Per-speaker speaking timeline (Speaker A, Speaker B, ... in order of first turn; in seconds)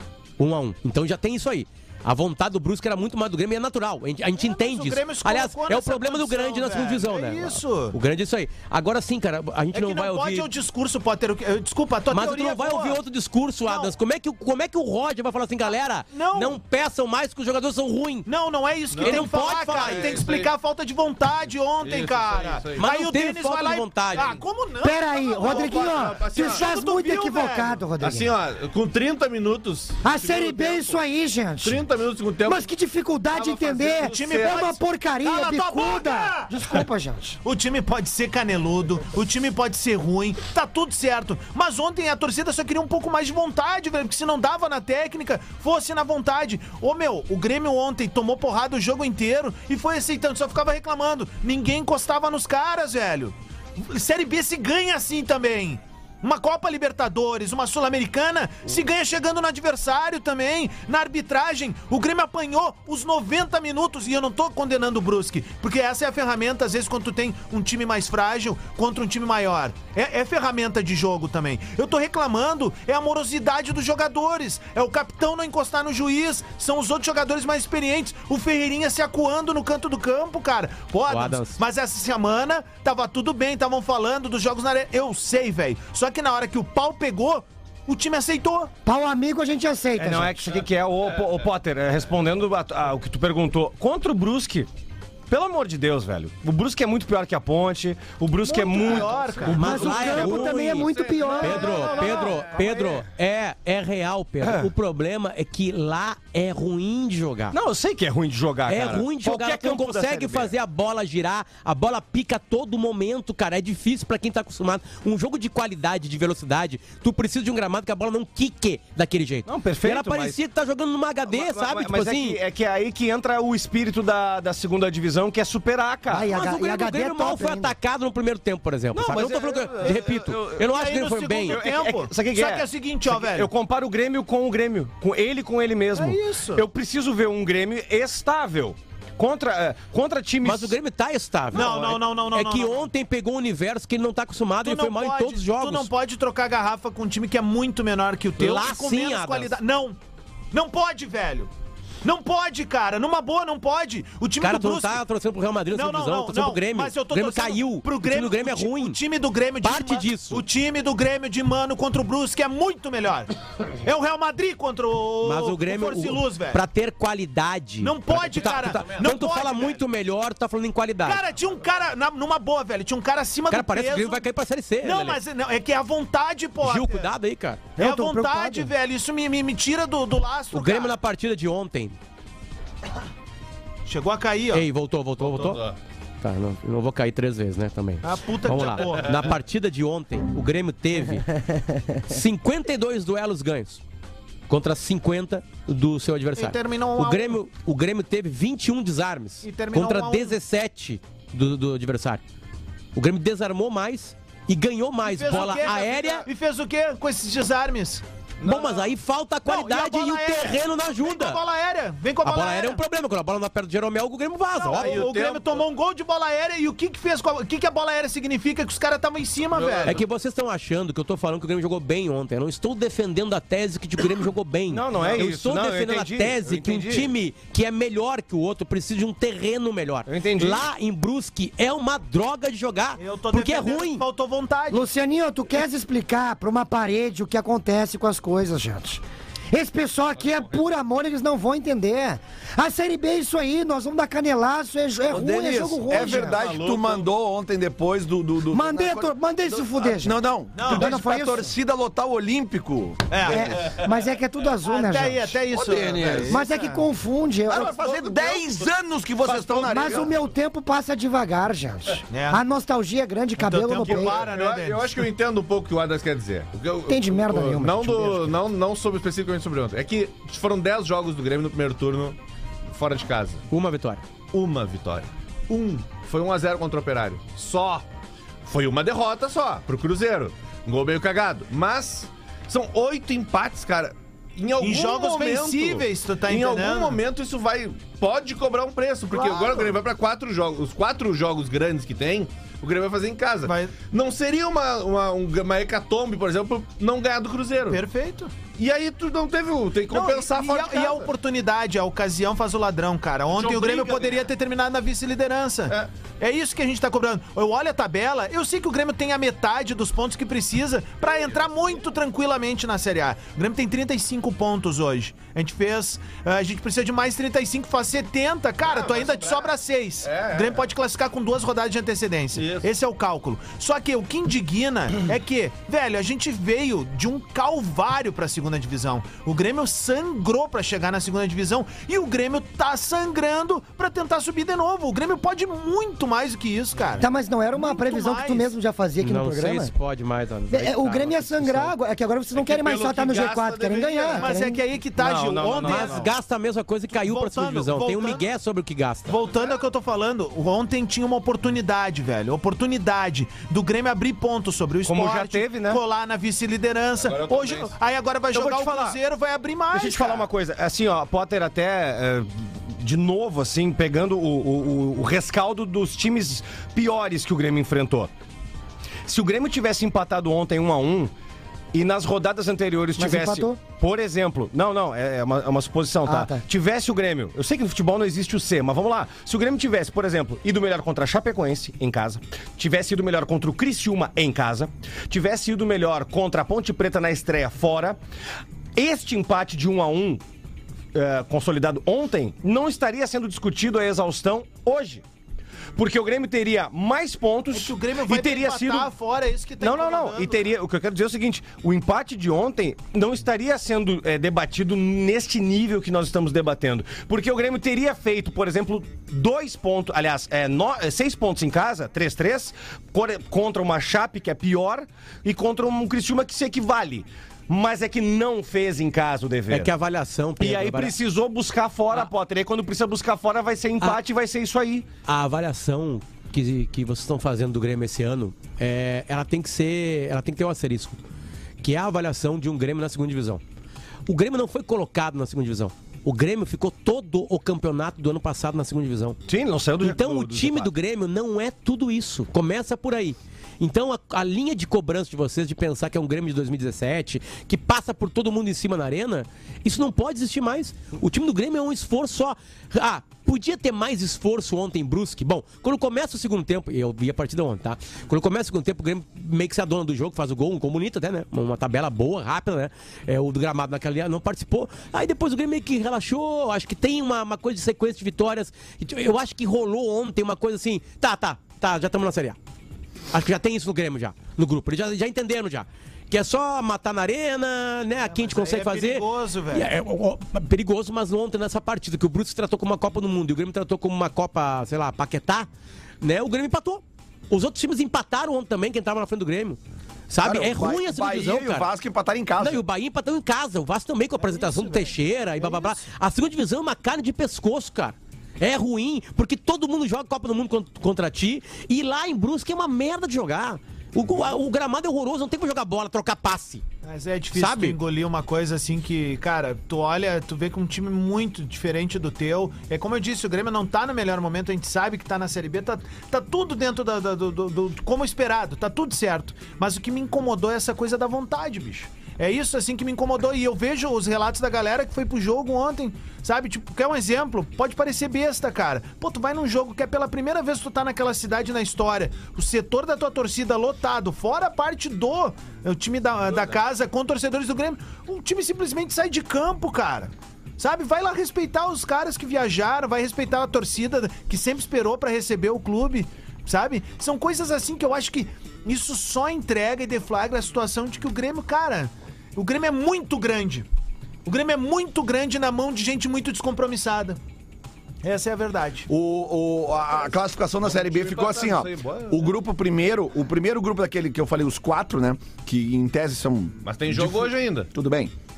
Speaker A: 0.4-10.5, 12.1-18.3, 19.0-20.2, 22.8-24.3, 81.1-81.6, 99.5-107.6, 108.7-122.4, 126.3-131.6, 140.4-145.9, 148.4-149.6, 154.4-159.0, 159.6-160.4, 165.2-171.2, 173.5-175.2, 176.6-177.6, 180.5-182.0, 184.5-185.6, 186.2-191.3, 192.0-193.8, 194.5-202.2, 202.9-206.3, 208.4-211.4, 212.2-215.0, 219.8-234.0, 273.5-274.0, 339.0-341.8, 345.6-349.2, 419.5-420.9, 425.1-431.0, 431.6-433.4, 434.1-439.2, 439.8-472.4, 473.1-485.5, 486.0-491.7, 492.4-506.6, 507.4-507.8
Speaker B: 4.4-8.0, 9.7-13.0, 13.7-13.9, 16.1-16.6, 18.3-27.8, 33.9-36.5, 37.5-88.7, 98.4-100.2, 101.2-103.0, 130.6-133.5, 135.9-136.7, 141.5-142.9, 144.6-150.0, 150.5-151.5, 152.0-155.0, 155.7-166.6, 167.8-169.8, 171.0-174.3, 174.8-177.1, 177.8-181.0, 183.9-184.7, 188.0-189.2, 196.4-197.4, 199.4-200.4, 205.0-208.0, 209.5-212.8, 214.6-220.0, 233.0-234.9, 250.6-250.9, 253.1-253.6, 254.6-256.8, 262.1-262.4, 263.4-265.1, 284.6-287.0, 289.1-289.8, 293.5-293.8, 297.7-298.3, 299.9-338.5, 344.1-346.1, 346.9-348.3, 349.1-360.3, 397.5-400.5, 478.0-479.7, 494.2-495.8, 506.8-553.7, 554.3-557.2, 558.0-558.9
Speaker C: 18.9-20.5, 21.8-22.9, 25.4-26.7, 28.0-31.0, 31.6-32.7, 33.3-34.1, 99.7-102.5, 185.2-185.8, 208.4-208.9, 214.7-215.6, 219.5-220.0, 240.2-240.6, 245.3-247.1, 255.7-256.2, 263.8-272.2, 272.7-273.4, 274.3-277.9, 278.4-297.8, 298.6-301.1, 303.3-304.3, 318.6-319.5, 320.0-320.6, 322.4-322.7, 342.3-344.3, 357.0-357.7, 560.6-562.3, 566.6-567.7
Speaker D: 24.8-28.3, 30.0-31.9, 32.4-37.4, 88.9-90.6, 99.5-101.8, 126.1-127.7, 177.8-178.7, 234.7-246.4, 248.5-251.5, 253.2-255.4, 256.3-257.9, 259.6-264.2, 266.9-268.4, 337.0-339.7, 340.5-344.6, 373.0-373.6, 376.1-376.4
Speaker E: 34.2-34.4, 90.0-94.7, 95.3-99.9, 101.7-102.2, 104.4-104.7, 107.5-110.5, 119.5-120.4, 121.3-126.3, 128.9-130.7, 131.5-140.8, 141.6-141.9, 224.7-227.1, 230.1-230.7, 345.0-346.1, 354.9-355.8, 358.3-359.0, 359.7-368.1, 369.1-371.1, 371.7-388.0, 388.8-390.2, 390.9-395.0, 395.8-398.9, 399.6-419.7, 420.4-424.9, 439.3-440.7
Speaker F: 245.1-253.4, 255.5-256.4, 257.5-260.2, 490.2-492.6, 558.9-568.1